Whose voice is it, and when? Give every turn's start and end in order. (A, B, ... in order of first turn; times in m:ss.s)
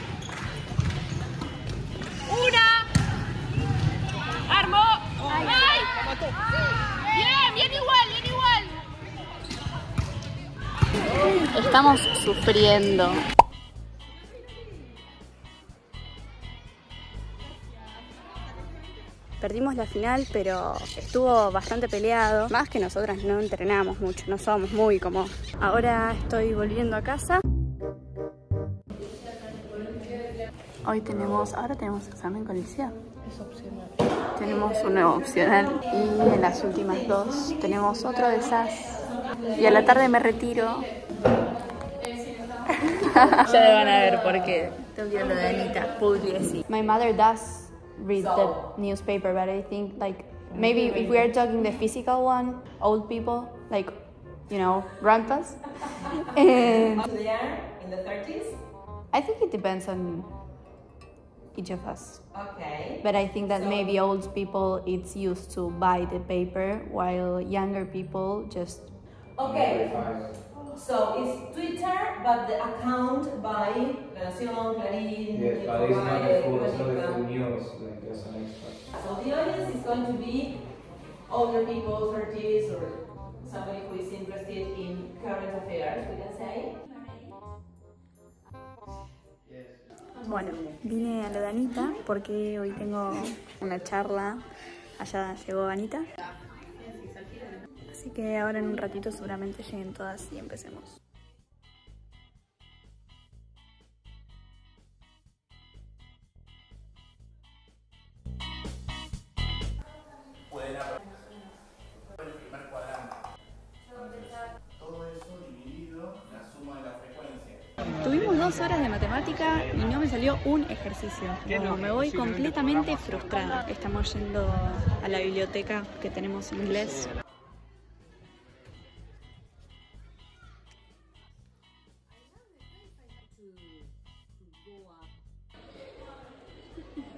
0:02.3-0:02.9 A
0:04.5-0:05.9 A
0:07.1-0:08.6 A
0:11.5-0:13.2 B
0:19.4-0:27.4 B
0:30.8-0:33.0 B
0:33.3-0:33.9 A
0:34.4-0:39.0 B
0:39.6-0:40.9 B
0:42.8-0:54.0 B
0:48.2-0:48.7 C
0:54.5-0:55.6 B
0:56.2-0:57.0 B
0:56.6-0:58.6 C
0:59.1-1:00.3 B
1:01.5-1:02.2 B
1:02.3-1:03.0 C
1:03.0-1:08.9 B
1:09.4-1:10.0 C
1:09.4-1:10.4 D
1:10.7-1:17.2 C
1:15.3-1:18.8 D
1:19.0-1:20.6 C
1:21.3-1:26.8 C
1:30.2-1:34.4 B
1:35.0-1:36.1 B
1:37.9-1:41.0 B
1:58.0-2:07.1 B